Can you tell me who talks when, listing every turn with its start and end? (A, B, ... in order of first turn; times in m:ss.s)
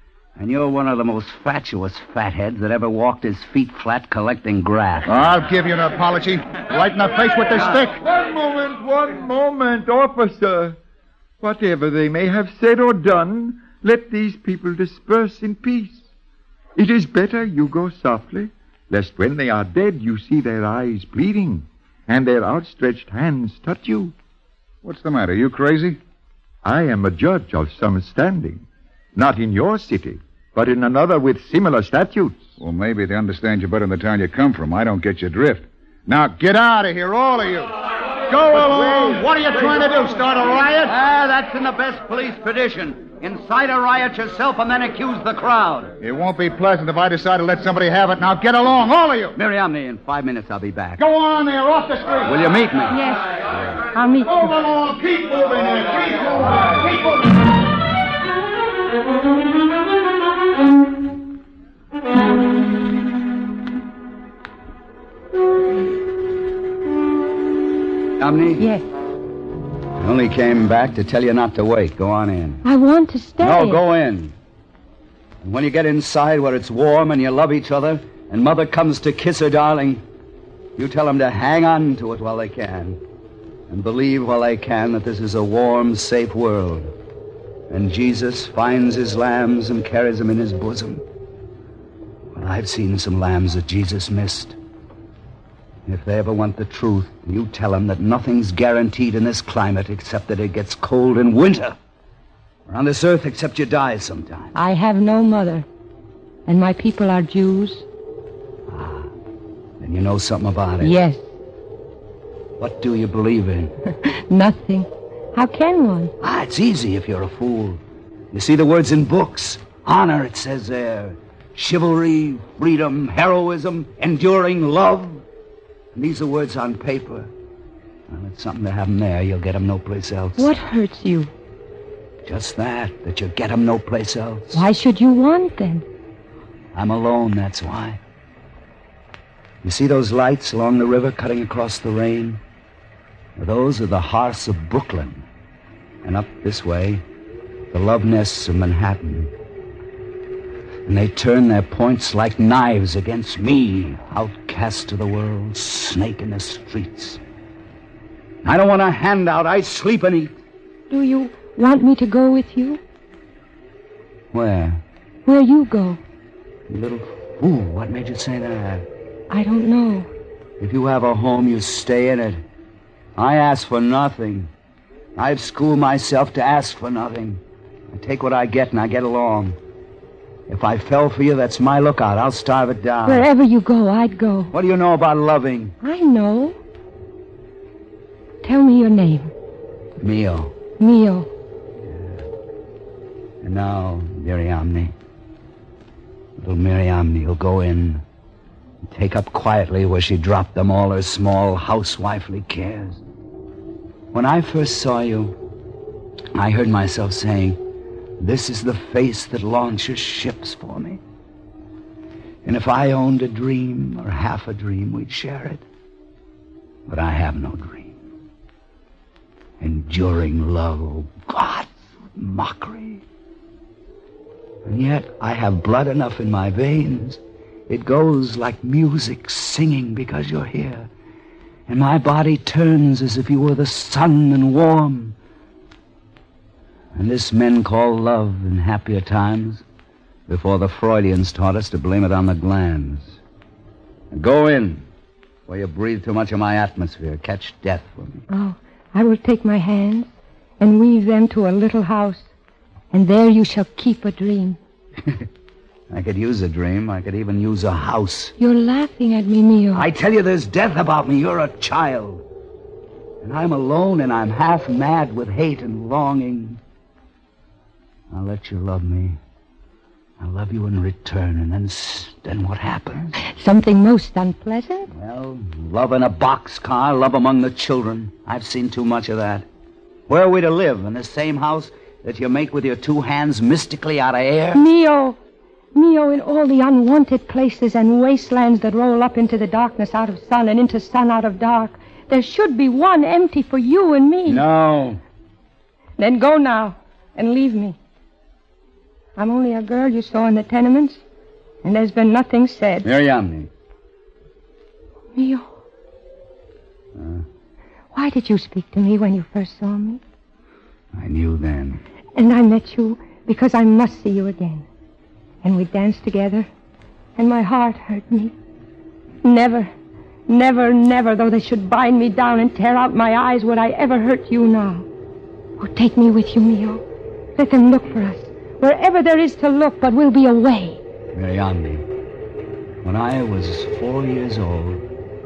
0:00.4-0:05.1 A
0:05.0-0:08.0 B
0:08.0-0:10.8 C
0:11.4-0:16.0 C
0:16.7-0:24.1 C
0:24.8-0:26.0 B
0:26.6-0:28.6 C
0:29.1-0:32.5 C
0:32.6-0:37.7 B
0:38.3-0:40.9 B
0:38.5-0:39.6 A
0:40.8-0:45.9 A
0:46.0-0:49.3 B
0:49.3-0:51.0 A
0:51.0-0:52.3 B
0:52.2-0:53.0 A
0:52.9-0:53.4 D
0:53.9-0:54.6 D
0:54.6-0:56.9 B
1:08.2-1:08.6 A
1:08.6-1:08.8 D
1:10.0-1:12.6 A
1:12.6-1:13.8 D
1:13.4-1:14.3 A
1:15.4-1:20.0 A
1:20.8-1:23.0 A
1:23.7-1:26.9 A
1:27.7-1:31.0 A
1:32.3-1:34.6 A
1:35.8-1:41.8 A
1:42.7-1:44.5 A
1:44.5-1:45.7 D
1:46.4-1:47.8 D
1:48.7-1:49.1 A
1:49.8-1:50.9 A
1:50.8-1:51.2 D
1:52.6-1:53.7 A
1:53.9-1:56.1 D
1:56.2-1:57.8 A
1:58.3-2:05.2 A
2:05.9-2:07.3 A
2:08.1-2:10.5 A
2:10.4-2:11.3 D
2:12.2-2:14.6 A
2:14.5-2:15.8 D
2:16.7-2:18.0 A
2:19.6-2:22.4 A
2:23.4-2:25.2 A
2:26.0-2:27.0 A
2:27.7-2:29.3 A
2:30.8-2:37.2 A
2:38.4-2:40.4 A
2:40.9-2:42.8 D
2:44.3-2:44.8 A
2:45.2-2:46.0 D
2:46.7-2:48.9 A
2:49.3-2:50.1 D
2:50.6-2:52.4 A
2:53.2-2:54.5 A
2:55.2-2:59.6 A
3:00.5-3:03.2 A
3:03.0-3:04.5 D
3:04.5-3:05.7 A
3:05.8-3:06.6 D
3:08.4-3:09.3 D
3:10.0-3:10.5 A
3:10.8-3:11.3 D
3:11.8-3:12.2 A
3:13.4-3:14.9 A
3:16.4-3:18.0 A
3:18.8-3:23.0 A
3:24.1-3:25.4 A
3:26.3-3:27.6 A
3:28.2-3:31.0 A
3:32.4-3:35.6 A
3:36.9-3:38.0 A
3:39.6-3:43.0 A
3:44.6-3:50.9 A
3:51.7-3:55.2 A
3:56.9-3:59.6 A
4:00.3-4:03.2 A
4:04.1-4:04.8 A
4:05.5-4:08.2 A
4:08.3-4:10.1 D
4:10.6-4:12.3 D
4:12.9-4:14.6 D
4:15.9-4:18.3 A
4:18.4-4:19.8 D
4:19.7-4:22.2 A
4:23.2-4:26.6 A
4:28.1-4:29.2 A
4:30.2-4:33.2 A
4:33.2-4:34.9 D
4:34.9-4:39.5 A
4:40.1-4:44.6 A
4:44.5-4:45.2 D
4:45.7-4:54.4 D
4:54.2-4:55.0 A
4:56.0-4:57.8 D
4:59.2-5:01.0 D
5:01.6-5:02.8 D
5:02.8-5:03.5 A
5:05.1-5:05.4 D
5:06.9-5:07.2 A
5:07.9-5:10.0 D
5:10.9-5:11.8 A
5:12.2-5:14.6 D
5:15.4-5:16.5 D
5:17.2-5:18.3 D
5:19.2-5:19.7 D
5:20.3-5:24.9 D
5:25.6-5:26.8 D
5:27.4-5:30.8 D
5:31.1-5:31.8 A
5:32.8-5:34.8 A